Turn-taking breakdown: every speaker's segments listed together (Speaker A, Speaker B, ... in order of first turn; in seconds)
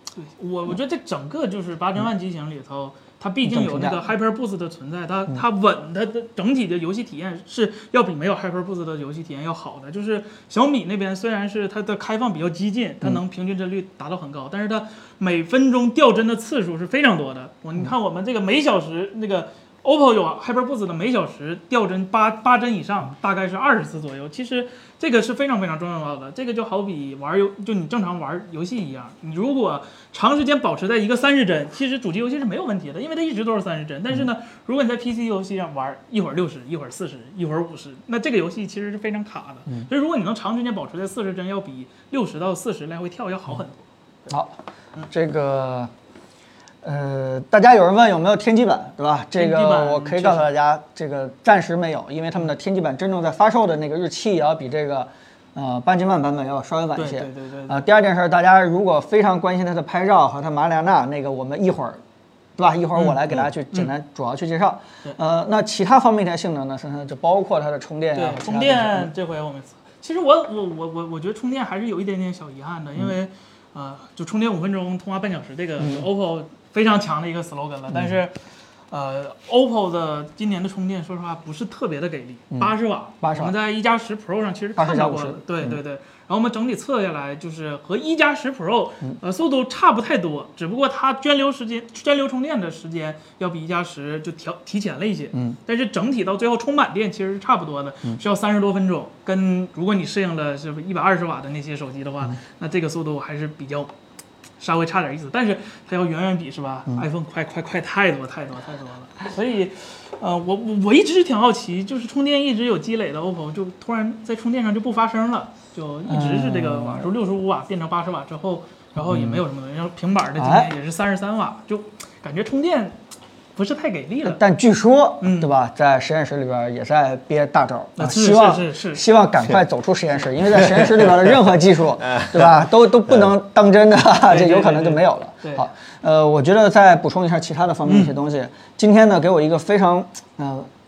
Speaker A: 0.2-43.8, 49.4-50.5, 57.0-57.8, 63.0-63.9, 68.1-78.4, 78.9-103.9, 104.6-123.0, 123.5-124.4, 125.2-125.5, 128.0-129.0, 134.3-135.6, 137.9-138.1
Speaker B: 3.4-4.0, 44.3-44.5, 45.1-45.9, 46.8-62.0, 62.6-69.1, 82.5-83.5, 84.8-85.8, 95.3-95.6, 116.0-117.1, 119.0-119.4, 120.4-120.7, 124.2-140.7